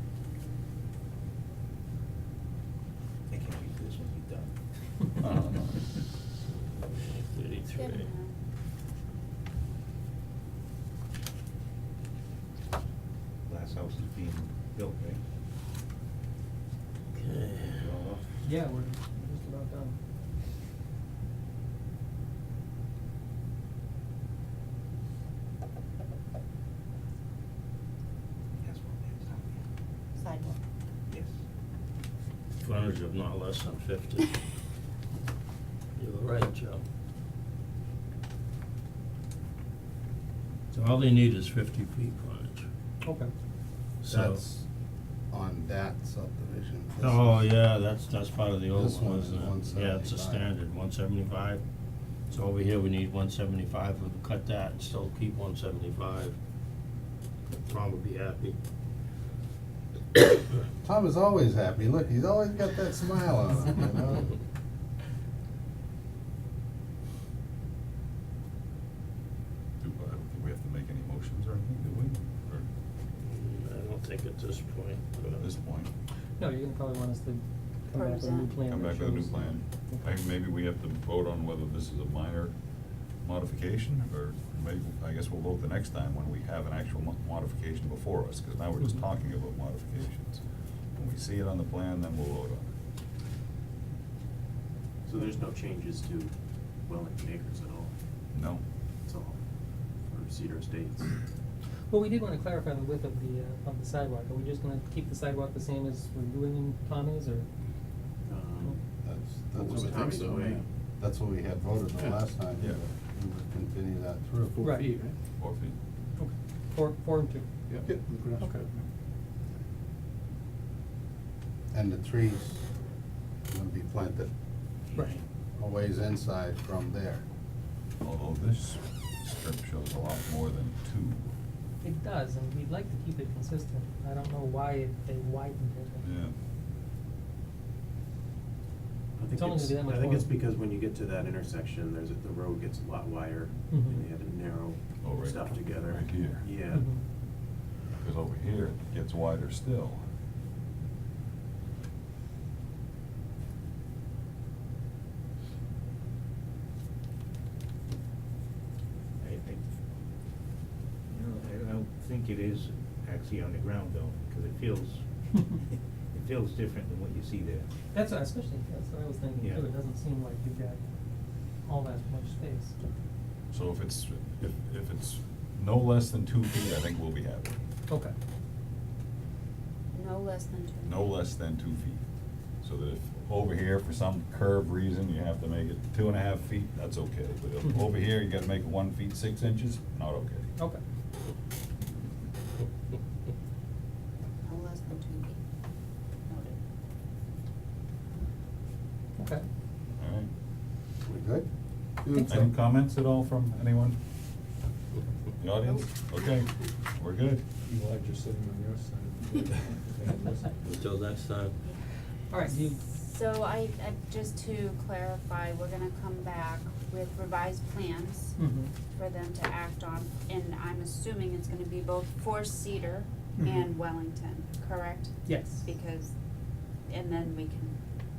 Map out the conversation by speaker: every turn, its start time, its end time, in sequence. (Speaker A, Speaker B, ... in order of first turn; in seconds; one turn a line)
Speaker A: 3.3-4.5
Speaker B: 5.2-5.8
Speaker C: 6.8-8.1
Speaker D: 7.7-8.3
Speaker A: 13.5-15.2
Speaker C: 17.1-17.9
Speaker A: 17.8-18.3
Speaker E: 18.4-20.0
Speaker A: 28.6-29.6
Speaker D: 30.2-30.6
Speaker C: 32.6-34.4
Speaker C: 36.0-36.8
Speaker C: 40.7-42.7
Speaker E: 43.0-43.3
Speaker C: 44.0-44.4
Speaker F: 44.0-44.6
Speaker F: 45.3-47.4
Speaker C: 47.0-51.6
Speaker F: 48.7-50.5
Speaker C: 52.3-56.4
Speaker C: 57.5-58.6
Speaker F: 60.8-64.3
Speaker B: 69.8-72.7
Speaker C: 73.2-75.5
Speaker B: 75.3-75.9
Speaker E: 76.4-80.1
Speaker D: 77.9-78.6
Speaker B: 78.6-82.5
Speaker B: 83.2-90.4
Speaker B: 90.9-92.7
Speaker G: 95.0-96.3
Speaker G: 96.8-97.9
Speaker B: 98.3-98.6
Speaker G: 99.0-99.4
Speaker G: 100.1-101.2
Speaker E: 101.9-107.5
Speaker G: 108.2-108.8
Speaker F: 109.0-114.6
Speaker G: 109.5-110.6
Speaker H: 109.9-110.6
Speaker H: 114.5-115.1
Speaker E: 114.6-114.9
Speaker B: 115.4-115.7
Speaker E: 116.2-117.5
Speaker H: 117.7-118.7
Speaker F: 121.7-122.6
Speaker F: 123.5-124.3
Speaker A: 124.9-125.2
Speaker F: 125.6-127.2
Speaker B: 128.0-131.3
Speaker E: 131.8-136.1
Speaker B: 136.0-136.3
Speaker G: 139.2-146.8
Speaker E: 139.3-140.3
Speaker E: 143.7-144.0
Speaker B: 145.0-146.5
Speaker E: 146.7-147.0
Speaker B: 148.0-150.0
Speaker A: 159.2-159.6
Speaker A: 161.1-167.7
Speaker E: 167.9-170.8
Speaker A: 169.4-169.6
Speaker E: 171.6-172.7
Speaker B: 173.5-177.6
Speaker E: 177.9-178.1
Speaker D: 179.9-181.2
Speaker B: 180.8-182.0
Speaker B: 182.6-190.4
Speaker E: 187.6-187.9
Speaker D: 194.4-195.4
Speaker D: 196.3-196.6
Speaker E: 199.2-199.4
Speaker B: 200.0-200.3
Speaker F: 201.1-201.5
Speaker F: 202.0-202.5
Speaker E: 202.1-202.4
Speaker B: 202.2-203.9
Speaker B: 205.4-207.4
Speaker H: 207.6-210.6
Speaker C: 210.6-211.5
Speaker D: 211.6-218.3
Speaker E: 212.3-212.8
Speaker E: 218.4-218.7
Speaker D: 218.9-226.1
Speaker E: 223.4-223.7
Speaker E: 225.2-225.7
Speaker D: 226.9-227.8